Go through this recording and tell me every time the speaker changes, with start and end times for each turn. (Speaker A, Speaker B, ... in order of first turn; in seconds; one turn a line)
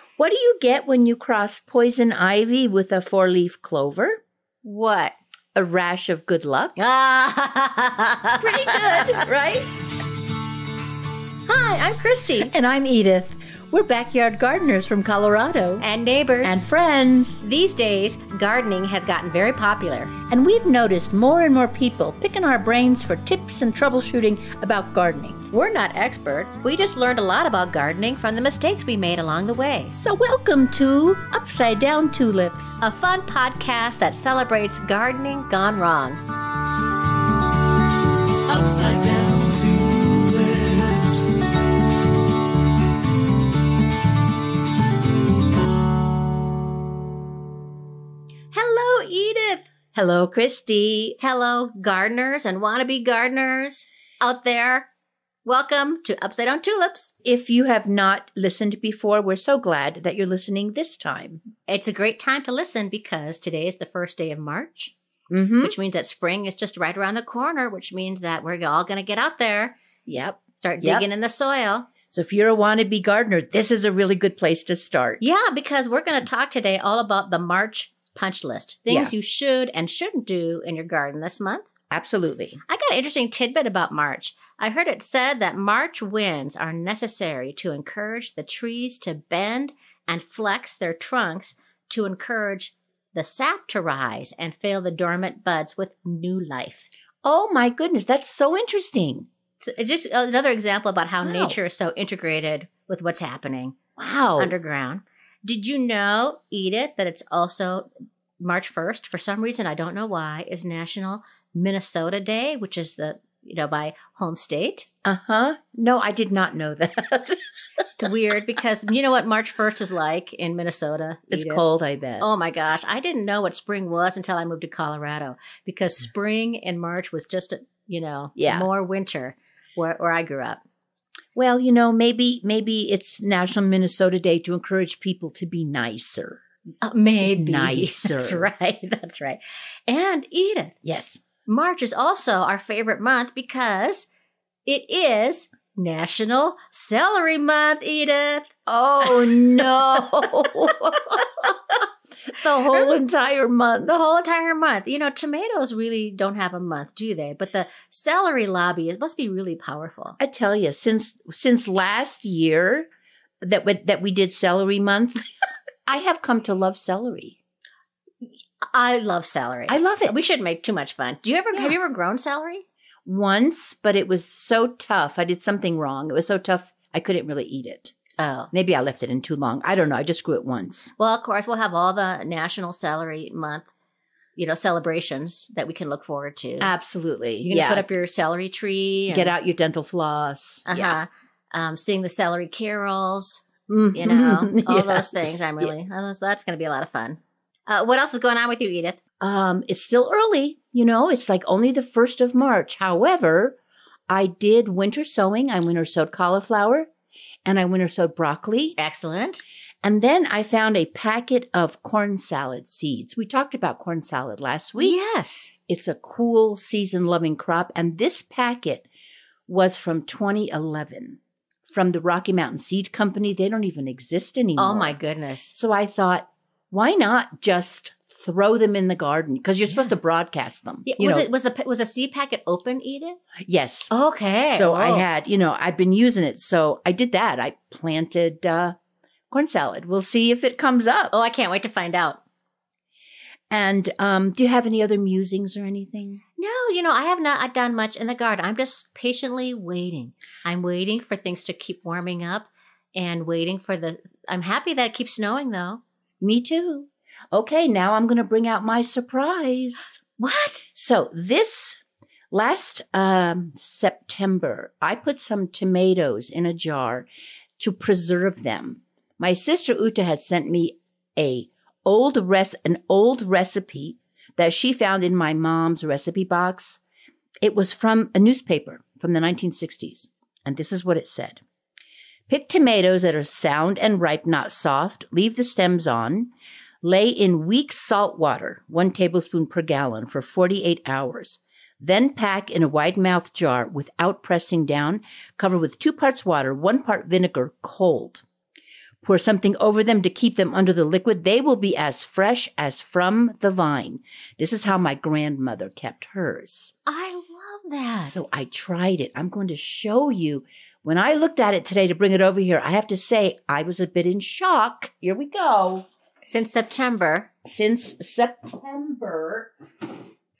Speaker A: 0.2-4.2
Speaker B: 4.6-5.1
Speaker A: 5.5-6.8
Speaker B: 6.8-9.2
Speaker A: 8.4-9.7
Speaker B: 11.5-12.5
Speaker A: 12.4-15.8
Speaker B: 15.8-16.6
Speaker A: 16.4-17.4
Speaker B: 17.4-20.1
Speaker A: 20.3-25.5
Speaker B: 25.5-29.9
Speaker A: 30.0-32.8
Speaker B: 32.8-36.2
Speaker C: 38.5-41.4
Speaker B: 48.5-49.7
Speaker A: 49.9-51.2
Speaker B: 51.2-54.9
Speaker B: 55.5-57.1
Speaker A: 57.2-61.4
Speaker B: 61.6-64.9
Speaker A: 65.3-65.8
Speaker B: 65.6-69.8
Speaker A: 70.1-71.1
Speaker B: 70.6-71.9
Speaker A: 72.1-75.3
Speaker B: 75.2-81.7
Speaker A: 78.9-79.1
Speaker A: 81.9-82.6
Speaker B: 82.7-96.9
Speaker A: 97.2-99.3
Speaker B: 99.6-103.8
Speaker A: 101.2-101.6
Speaker A: 104.0-104.5
Speaker B: 104.4-114.9
Speaker A: 115.0-117.4
Speaker B: 118.0-121.6
Speaker A: 121.3-122.3
Speaker B: 122.2-130.6
Speaker A: 128.4-128.7
Speaker A: 131.3-136.4
Speaker B: 136.8-140.8
Speaker A: 137.2-138.5
Speaker A: 140.8-141.2
Speaker B: 141.5-144.1
Speaker B: 144.7-148.5
Speaker A: 148.7-154.0
Speaker B: 153.8-160.2
Speaker A: 160.2-162.9
Speaker A: 163.4-165.3
Speaker A: 165.9-167.4
Speaker B: 168.6-172.7
Speaker A: 169.7-170.1
Speaker A: 173.1-177.9
Speaker B: 178.2-178.5
Speaker A: 178.5-180.9
Speaker B: 181.0-183.7
Speaker B: 184.4-186.7
Speaker A: 186.6-187.9
Speaker B: 187.4-189.3
Speaker A: 189.1-191.0
Speaker B: 190.7-199.0
Speaker A: 193.7-195.7
Speaker A: 199.2-203.6
Speaker A: 204.1-206.9
Speaker A: 207.4-208.8
Speaker B: 208.8-209.4
Speaker A: 209.8-215.0
Speaker B: 214.8-215.5
Speaker A: 215.7-218.9
Speaker A: 219.5-225.0
Speaker B: 224.6-225.6
Speaker A: 225.5-231.3
Speaker B: 230.8-233.2
Speaker A: 233.4-233.9
Speaker B: 233.9-235.1
Speaker A: 234.5-238.8
Speaker A: 239.3-241.1
Speaker B: 241.1-242.2
Speaker A: 243.5-246.2
Speaker B: 246.4-255.8
Speaker A: 256.2-260.0
Speaker B: 260.2-260.6
Speaker A: 260.7-261.8
Speaker A: 262.3-267.1
Speaker A: 267.6-276.8
Speaker A: 277.4-281.4
Speaker A: 282.3-298.2
Speaker A: 299.0-306.7
Speaker B: 306.9-308.2
Speaker A: 308.0-315.9
Speaker B: 316.2-317.3
Speaker A: 317.4-319.5